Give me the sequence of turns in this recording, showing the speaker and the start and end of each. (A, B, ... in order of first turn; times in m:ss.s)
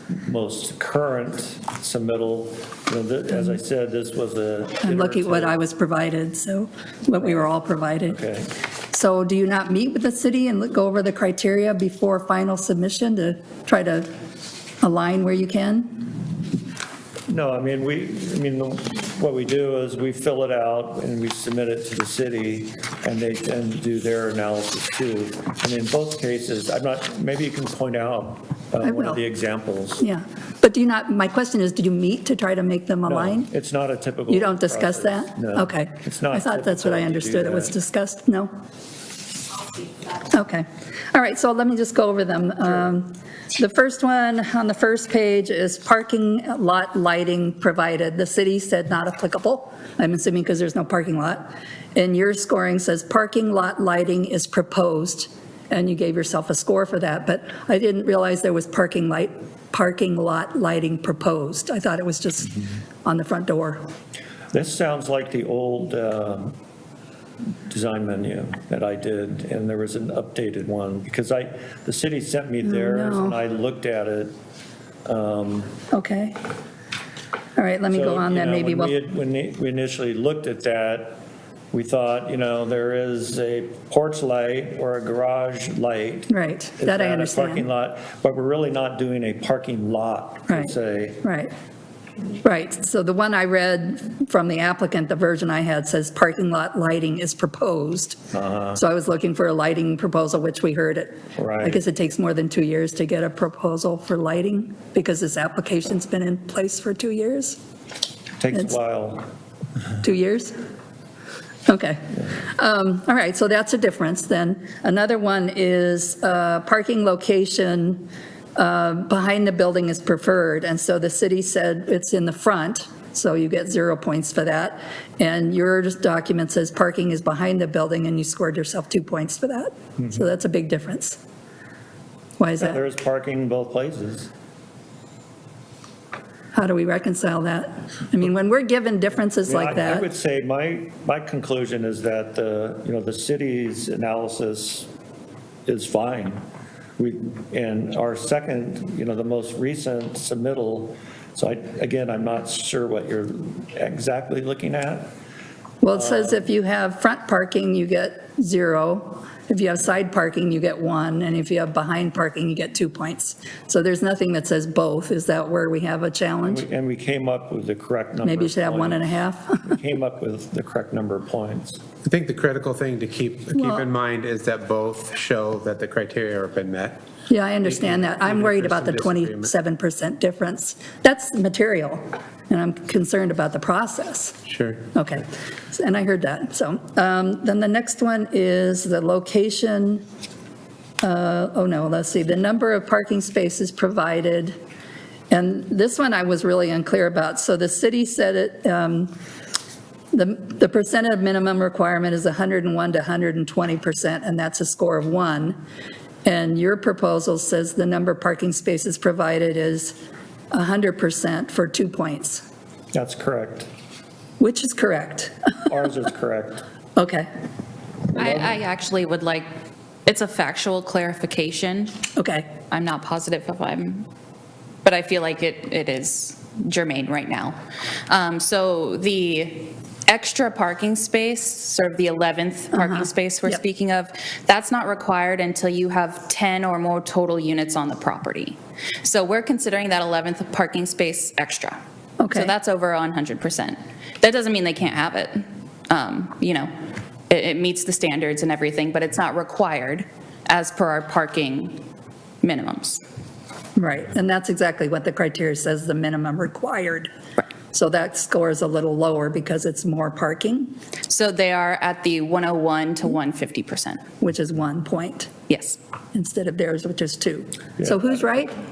0:00.2-0:05.6 A
0:04.8-0:08.2 B
0:08.1-0:08.6 A
0:08.9-0:14.1 B
0:14.8-0:16.1 B
0:17.3-0:30.0 A
0:28.8-0:29.2 B
0:30.0-0:33.5 B
0:33.1-0:37.8 A
0:34.3-0:38.5 B
0:40.2-1:03.9 B
1:04.5-1:06.6 A
1:07.7-1:14.4 A
1:12.6-1:13.4 B
1:15.1-1:15.7 A
1:15.9-1:16.4 B
1:17.6-1:18.9 B
1:17.9-1:21.2 A
1:21.7-1:31.2 A
1:26.3-1:27.7 B
1:30.5-1:31.5 B
1:32.4-1:38.2 B
1:38.3-1:38.8 A
1:38.8-1:47.6 B
1:41.4-1:41.8 A
1:48.4-1:49.3 A
1:48.5-1:48.8 B
1:50.0-1:50.6 B
1:51.7-2:11.2 B
2:12.4-2:12.8 B
2:12.6-2:14.3 A
2:16.5-2:20.1 B
2:19.5-2:24.9 A
2:25.7-2:26.4 A
2:27.0-2:35.1 A
2:35.8-2:46.7 B
2:35.9-2:36.4 A
2:46.4-2:51.8 A
2:48.2-2:49.8 B
2:52.0-2:57.0 C
2:53.5-2:53.9 B
2:57.3-3:04.4 B
2:57.6-2:59.5 C
3:04.5-3:04.9 C
3:04.9-3:10.0 B
3:11.0-3:14.6 B
3:15.3-3:19.2 B
3:20.1-3:25.6 B
3:26.2-3:30.0 B
3:30.5-3:32.4 B
3:32.9-3:33.7 A
3:34.4-3:35.3 B
3:35.7-3:36.6 A
3:37.0-3:37.3 B
3:38.1-3:39.5 D
3:40.1-3:42.0 D
3:42.2-3:42.5 B
3:42.7-3:44.1 D
3:44.8-3:47.6 D
3:48.1-4:01.8 D
3:52.7-3:53.6 B
4:02.2-4:02.5 B
4:02.3-4:06.7 D
4:07.3-4:11.8 D
4:12.4-4:13.0 D
4:13.8-4:17.1 B
4:17.7-4:20.8 B
4:21.1-4:24.0 D
4:24.2-4:25.3 B
4:25.5-4:25.8 D
4:26.1-4:28.5 B